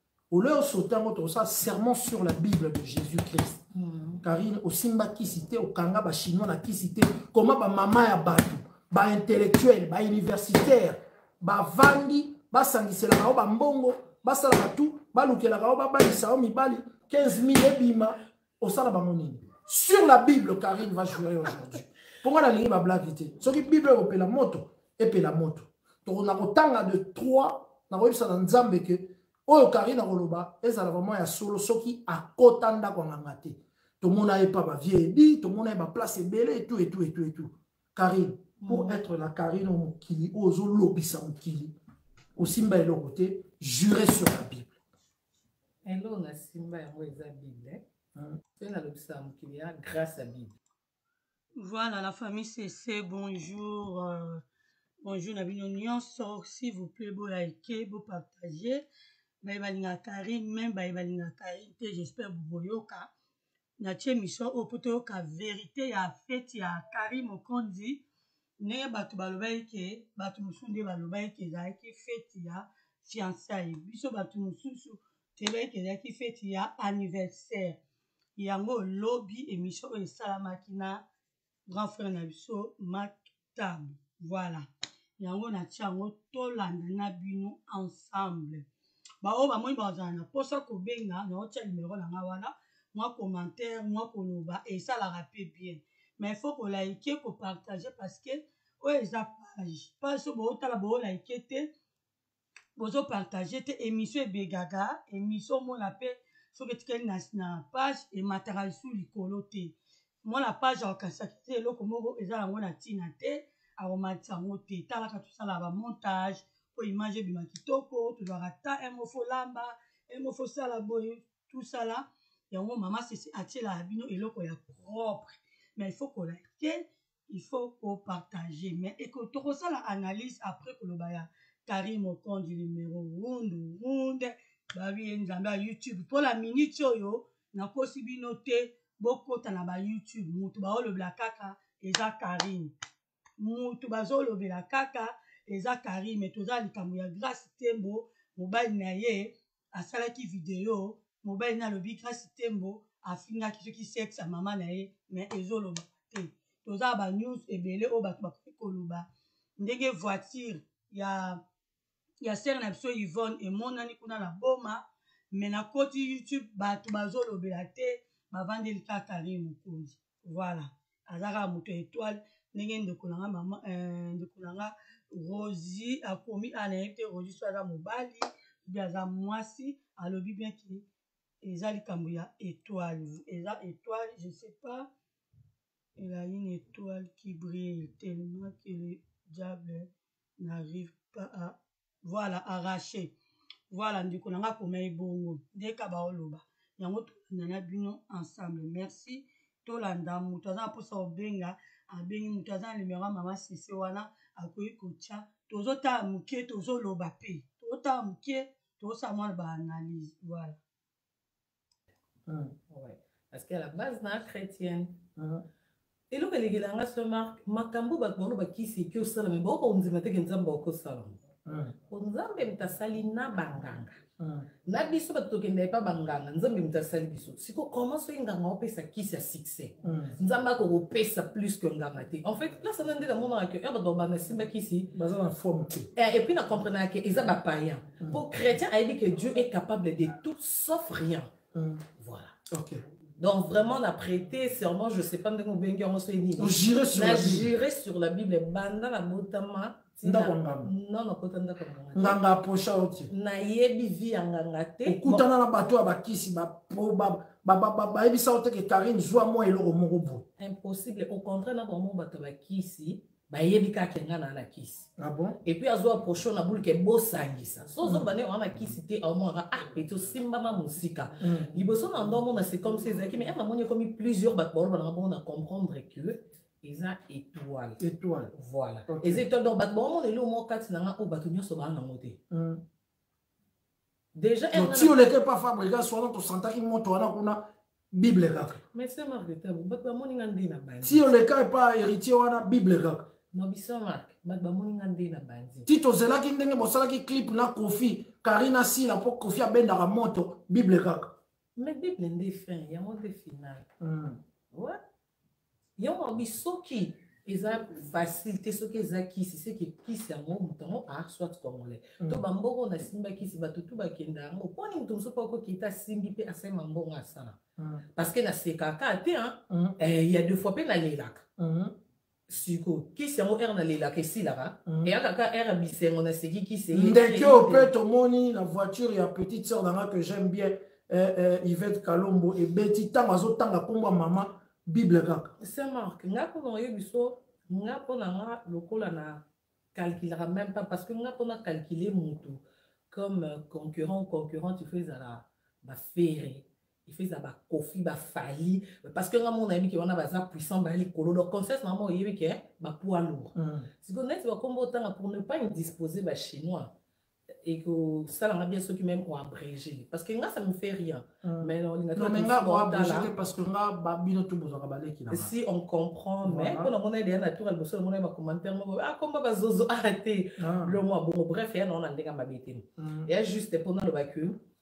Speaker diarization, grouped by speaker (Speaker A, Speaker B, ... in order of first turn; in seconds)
Speaker A: 0.3-3.6, 4.2-41.8, 42.4-44.7, 212.3-212.6, 215.2-215.4, 221.5-221.7, 224.2-224.5, 229.8-230.2, 234.9-235.9, 241.5-241.8, 242.5-242.8, 246.4-247.5, 250.0-250.7, 251.9-253.1, 254.8-260.3, 265.0-265.4, 267.8-268.1, 271.2-271.5, 277.8-278.3, 278.9-279.2, 282.3-282.6, 284.5-288.6, 290.8-293.1, 295.7-301.1, 303.8-304.2, 317.6-317.9, 319.5-319.8, 321.4-321.7, 324.7-324.9, 326.7-335.3, 353.4-353.7, 361.2-365.3, 366.2-366.7, 370.4-370.8, 372.8-373.1
Speaker B: 3.7-4.2, 38.6-39.0, 45.8-47.8, 48.6-50.5, 212.7-215.1, 216.1-221.2, 221.9-224.0, 224.7-234.9, 235.9-241.3, 242.0-242.3, 243.2-252.2, 253.1-255.2, 260.4-264.9, 265.4-277.8, 278.3-282.2, 284.1-285.0, 288.7-291.1, 293.3-295.7, 301.6-303.7, 304.5-304.8, 305.8-317.4, 317.9-321.2, 322.3-327.7, 335.4-339.2, 339.7-356.7, 357.4-363.1, 365.1-374.4
Speaker C: 51.6-54.4, 55.0-58.8, 59.4-63.1, 63.8-68.0, 68.6-77.8, 78.4-81.0, 81.7-84.7, 85.2-88.7, 89.2-101.7, 102.8-142.7, 143.4-159.1, 159.6-161.4, 162.2-164.8, 165.3-180.8, 181.4-184.9, 186.0-189.9, 190.4-193.1, 193.7-210.6